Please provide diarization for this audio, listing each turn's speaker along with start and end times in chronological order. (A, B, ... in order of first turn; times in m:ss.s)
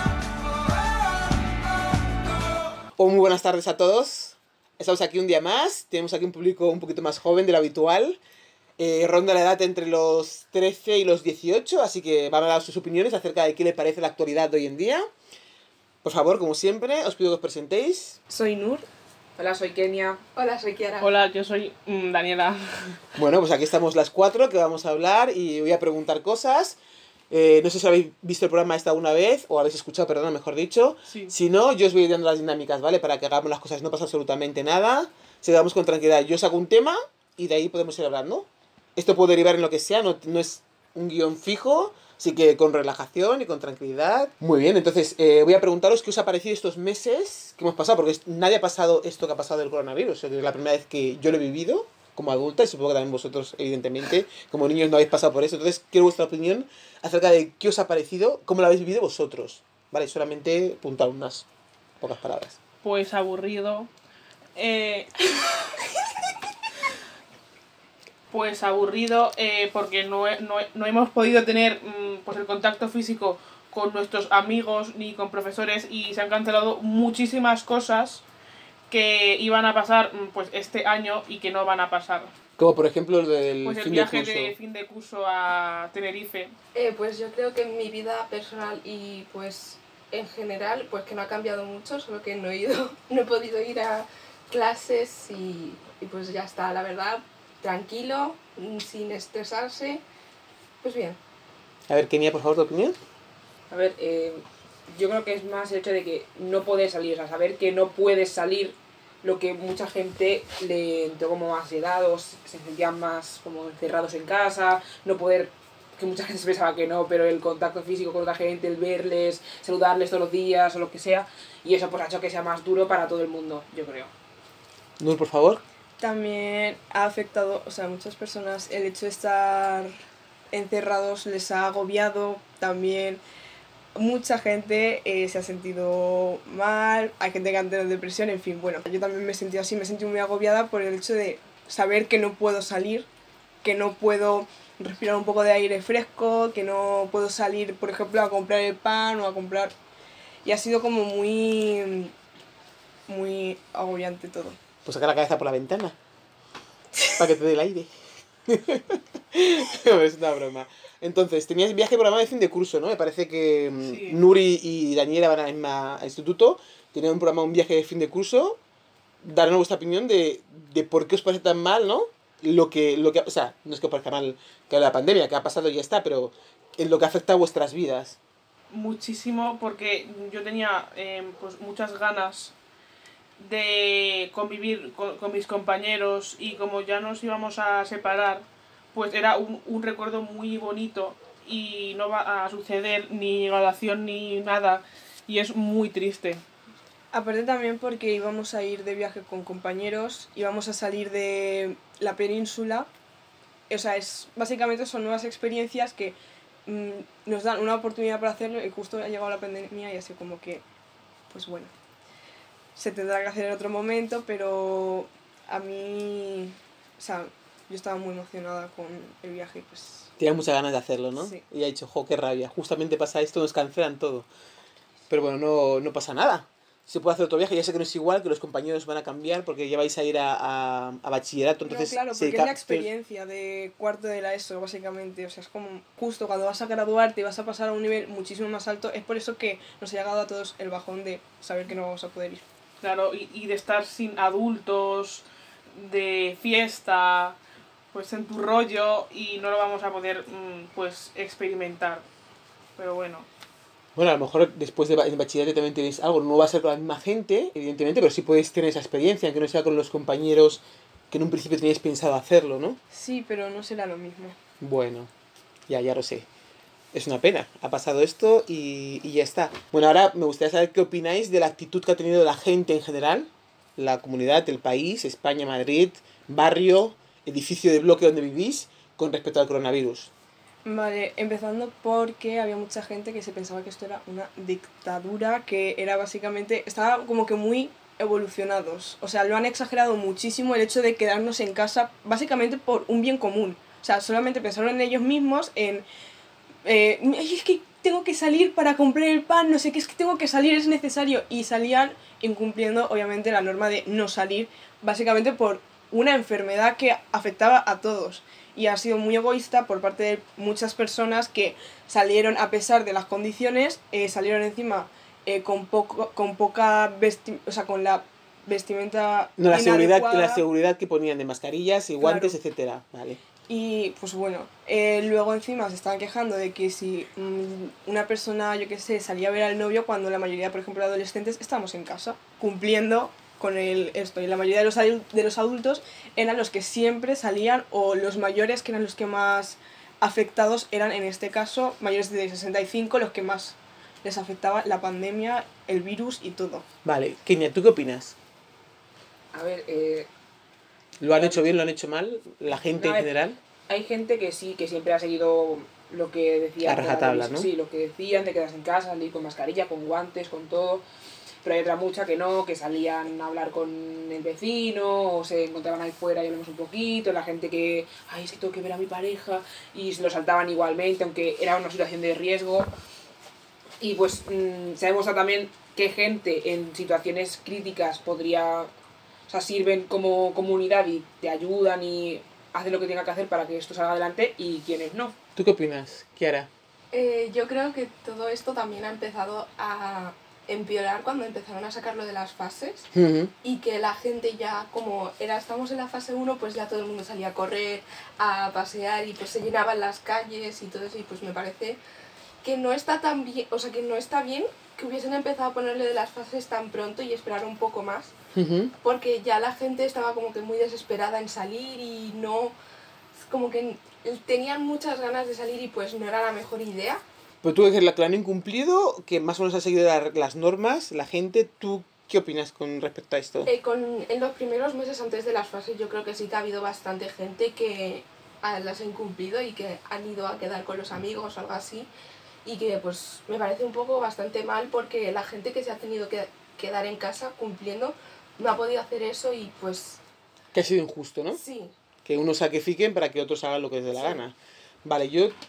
0:03.0-0:08.2 A
0:08.8-0:15.0 A
0:16.0-0:18.2 A
0:18.3-0:18.8 B
0:19.4-0:20.2 C
0:20.3-0:21.1 D
0:21.0-0:23.0 E
0:23.2-0:26.8 A
0:27.3-1:01.4 A
0:31.1-0:31.3 E
1:02.0-1:02.6 A
1:02.8-1:03.9 E
1:04.5-1:05.9 E
1:08.3-1:18.2 E
1:18.9-1:22.3 E
1:22.6-1:24.5 A
1:23.6-1:26.5 E
1:26.7-1:40.0 D
1:40.8-1:41.2 D
1:41.9-1:43.0 A
1:43.7-2:04.1 C
2:05.0-2:05.6 A
2:06.0-2:09.9 B
2:10.5-2:13.2 B
2:13.9-2:23.1 B
2:23.6-2:29.7 B
2:30.4-2:32.1 B
2:33.1-2:34.6 B
2:34.8-2:36.0 A
2:37.1-2:37.9 A
2:38.5-2:48.6 A
2:43.9-2:44.2 E
2:49.2-2:58.2 A
2:58.7-3:02.5 E
3:03.4-3:16.4 E
3:17.1-3:22.9 B
3:23.7-3:30.6 B
3:31.3-3:31.7 B
3:32.7-3:40.1 B
3:40.2-3:44.3 A
3:41.2-3:41.4 B
3:45.1-3:52.9 A
3:51.6-4:02.4 B
4:02.8-4:07.4 E
4:07.9-4:12.0 E
4:12.8-4:13.3 E
4:14.0-4:22.8 A
4:22.9-4:24.4 B
4:24.6-4:25.1 A
4:25.7-4:26.3 A
4:26.9-4:40.1 A
4:40.6-4:55.8 B
4:56.6-5:20.4 B
5:19.4-5:23.2 A
5:22.0-5:22.3 B
5:23.5-5:46.6 B
5:46.8-5:48.2 A
5:49.3-5:50.1 C
5:51.0-5:53.4 A
5:51.1-5:51.5 C
5:52.5-5:53.1 C
5:53.7-6:00.8 C
5:56.6-5:57.5 A
6:01.4-6:12.7 C
6:13.8-6:18.7 C
6:19.3-6:25.2 C
6:25.4-6:26.5 A
6:26.9-6:32.9 D
6:32.9-6:33.3 A
6:33.4-6:41.8 D
6:42.4-6:48.1 D
6:48.3-6:48.7 A
6:48.8-6:52.5 D
6:53.1-6:57.0 D
6:57.4-7:03.5 A
7:03.4-7:11.9 D
7:12.4-7:20.0 D
7:20.5-7:21.4 A
7:21.3-7:21.7 D
7:22.0-7:25.3 A